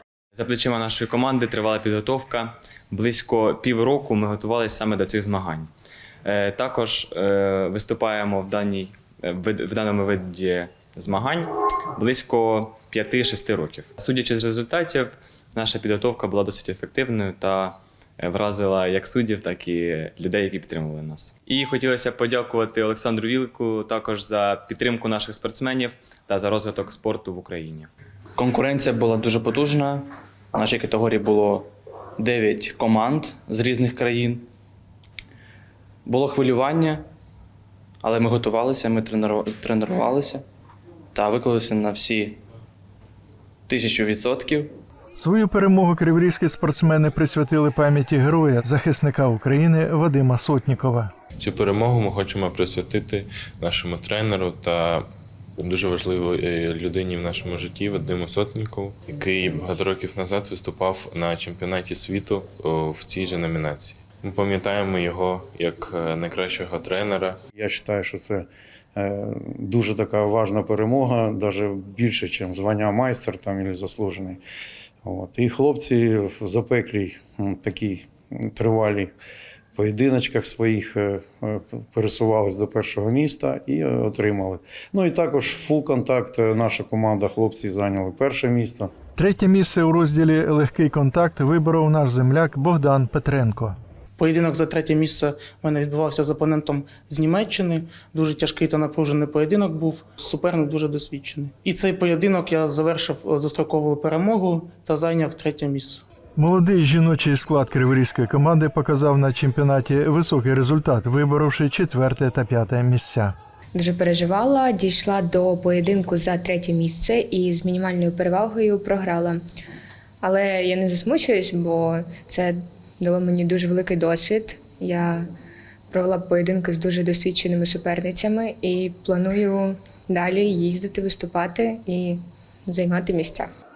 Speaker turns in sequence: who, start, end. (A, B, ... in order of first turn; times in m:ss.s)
0:00.3-0:05.7 A
0:06.2-0:27.9 A
0:28.4-0:34.5 B
0:36.0-0:37.1 B
0:38.0-0:40.4 B
0:41.1-0:42.4 B
0:43.7-0:44.7 B
0:45.2-0:51.1 C
0:51.4-0:55.0 D
0:55.6-1:07.4 D
1:07.5-1:14.4 E
1:15.0-1:19.1 E
1:19.7-1:28.9 E
1:29.2-1:33.8 C
1:34.2-1:46.0 F
1:46.4-1:53.3 C
1:53.7-1:59.4 G
2:00.2-2:05.2 G
2:05.9-2:13.5 G